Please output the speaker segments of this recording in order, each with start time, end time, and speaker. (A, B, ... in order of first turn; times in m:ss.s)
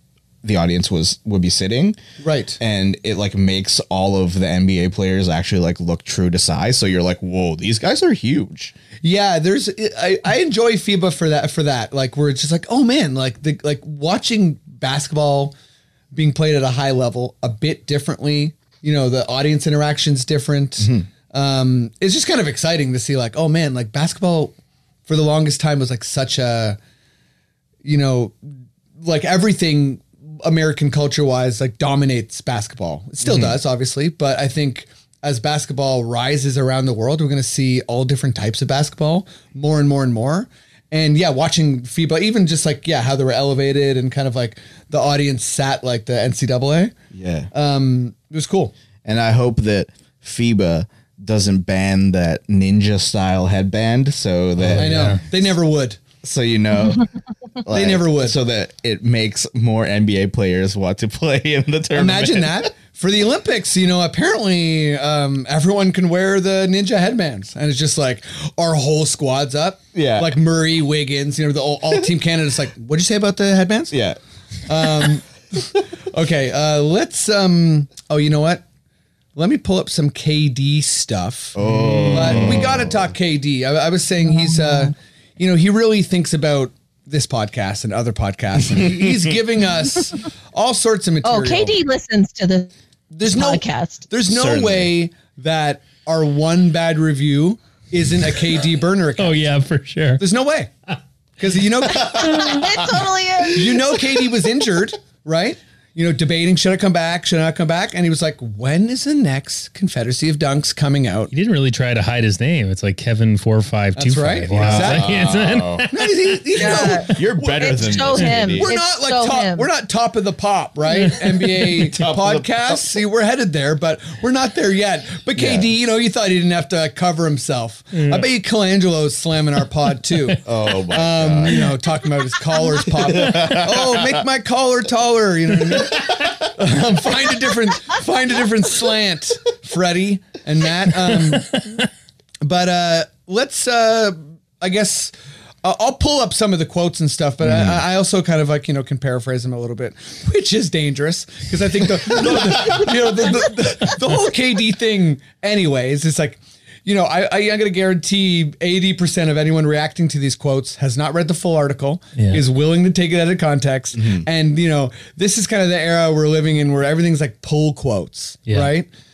0:00.4-0:02.0 A
0:02.2-0:02.6 B
0:02.6-0:08.7 A
0:09.0-0:15.6 B
0:16.1-0:24.5 B
0:20.8-0:21.1 A
0:25.1-0:26.8 B
0:27.8-0:28.4 B
0:29.0-0:46.9 B
0:33.2-0:33.6 A
0:47.1-0:47.5 A
0:47.5-0:48.7 B
0:49.0-0:55.2 A
0:54.6-0:55.2 C
0:54.8-0:56.0 B
0:56.2-0:57.1 A
0:57.6-1:02.7 A
0:57.7-0:58.4 B
1:01.9-1:14.0 B
1:09.9-1:10.3 A
1:13.9-1:14.2 A
1:14.7-1:18.6 B
1:14.8-1:15.1 A
1:19.4-1:31.7 B
1:21.6-1:23.1 A
1:21.6-1:22.7 C
1:24.4-1:24.9 D
1:28.8-1:29.3 A
1:31.2-1:32.7 D
1:33.1-1:39.5 B
1:33.2-1:34.1 D
1:34.2-1:34.9 A
1:39.2-1:40.2 C
1:40.2-1:40.7 B
1:41.4-1:42.7 B
1:42.1-1:43.9 D
1:43.4-1:51.3 B
1:51.3-1:56.4 C
1:54.0-1:55.1 B
1:54.5-1:55.9 A
1:55.9-1:57.2 B
1:56.6-1:59.7 D
1:56.6-1:58.7 A
1:58.6-2:21.6 B
2:01.2-2:01.5 C
2:01.6-2:02.8 A
2:05.4-2:05.7 A
2:08.0-2:08.2 C
2:10.4-2:11.7 A
2:12.8-2:14.2 A
2:21.3-2:21.8 C
2:22.4-2:48.9 B
2:27.4-2:27.8 A
2:42.2-2:42.4 C
2:43.9-2:44.3 A